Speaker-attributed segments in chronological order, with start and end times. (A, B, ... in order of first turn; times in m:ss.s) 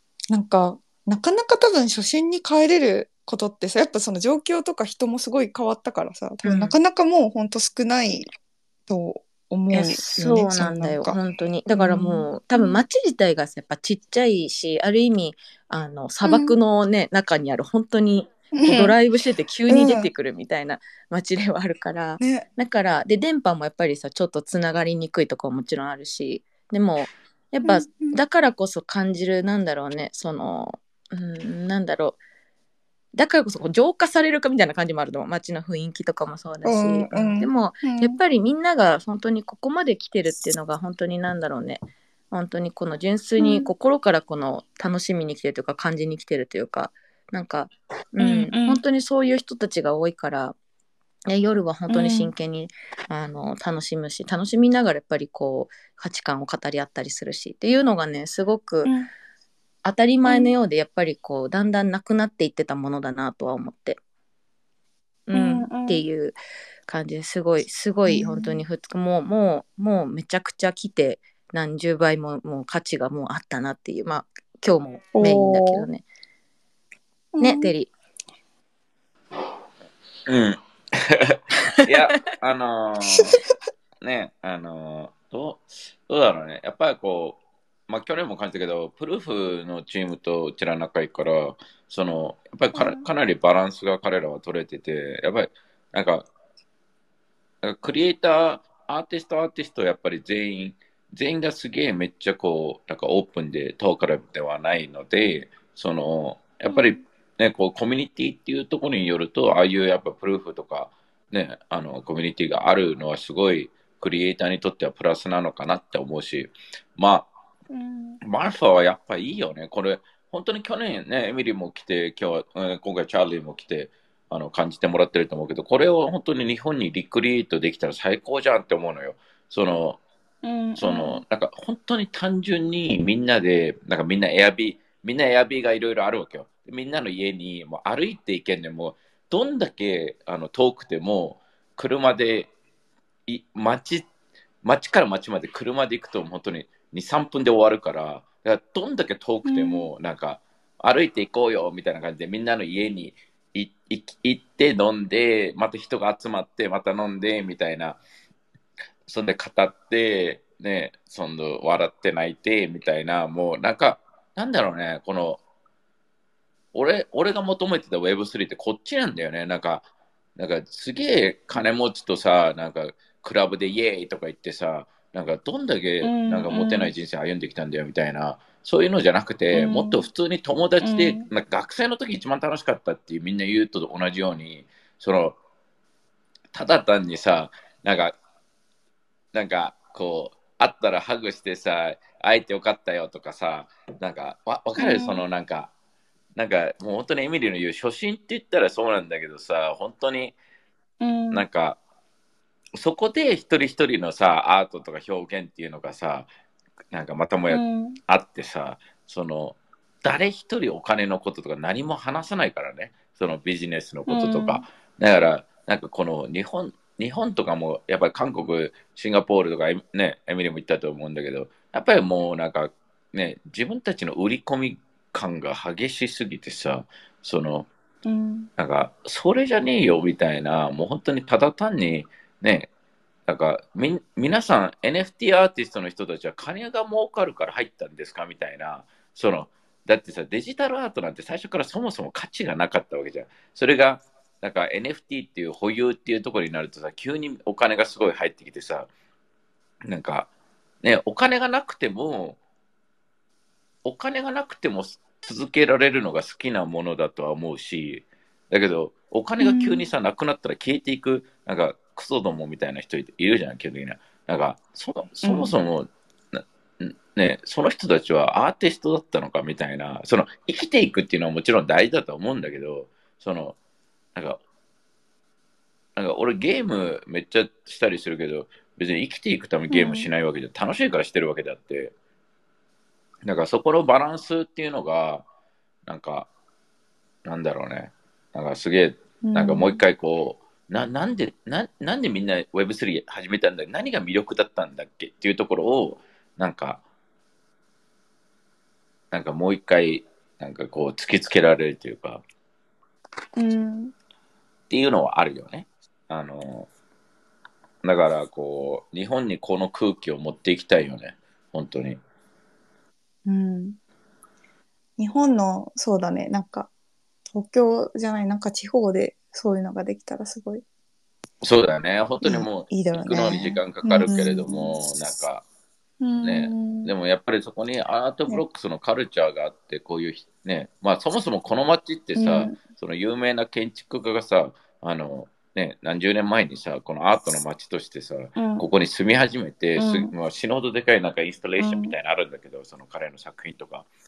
0:00.3-0:08.3 A
0:06.4-0:06.8 B
0:08.9-0:11.2 A
0:09.7-0:32.2 B
0:11.7-0:12.8 A
0:16.2-0:16.6 A
0:18.6-0:19.0 A
0:19.7-0:20.1 A
0:22.2-0:22.4 A
0:27.6-0:28.2 A
0:33.1-0:50.6 B
0:36.6-0:38.2 A
0:43.4-0:43.7 A
0:48.2-0:48.8 A
0:51.3-0:58.9 B
0:51.9-0:52.3 A
0:58.8-0:59.1 A
0:59.8-1:04.0 B
1:00.2-1:00.5 A
1:05.3-1:16.0 B
1:05.3-1:06.0 A
1:08.1-1:08.6 A
1:15.2-1:15.9 A
1:17.3-1:17.7 A
1:17.4-1:17.9 B
1:20.3-1:23.4 C
1:24.0-1:36.3 C
1:32.7-1:33.1 A
1:37.6-1:57.3 C
1:46.7-1:47.0 A
1:57.7-1:58.2 A
1:58.2-2:10.0 C
2:10.4-2:11.2 A
2:10.8-2:22.5 C
2:23.3-2:24.1 C
2:24.6-2:38.0 C
2:29.4-2:29.9 A
2:39.1-2:45.4 C
2:46.7-3:05.4 C
2:56.0-2:57.0 A
2:59.5-3:00.0 A
3:00.8-3:01.3 A
3:06.5-3:08.2 C
3:09.3-3:15.7 C
3:14.8-3:15.2 A
3:16.4-3:20.4 C
3:21.0-3:21.4 A
3:21.3-3:21.8 C
3:22.8-3:26.3 C
3:26.9-3:47.7 C
3:27.5-3:28.0 A
3:34.1-3:34.6 A
3:48.0-3:48.5 A
3:48.6-3:52.7 C
3:53.3-4:08.9 C
4:09.9-4:10.3 C
4:10.8-4:12.4 C
4:13.8-4:33.6 C
4:19.4-4:19.9 A
4:25.2-4:25.6 A
4:34.2-4:34.4 C
4:36.0-4:41.9 C
4:39.7-4:40.1 A
4:43.2-4:45.3 C
4:45.9-4:46.3 C
4:47.2-4:56.8 C
4:49.2-4:49.8 A
4:59.1-5:02.2 C
5:03.4-5:03.9 A
5:04.7-5:06.7 C
5:07.8-5:12.0 C
5:13.3-5:13.8 A
5:15.0-5:16.7 A
5:17.3-5:20.6 A
5:21.4-5:25.4 C
5:22.2-5:24.7 A
5:26.0-5:26.9 A
5:26.2-5:43.9 C
5:32.2-5:32.6 A
5:38.4-5:38.6 A
5:39.8-5:40.1 A
5:41.6-5:42.0 A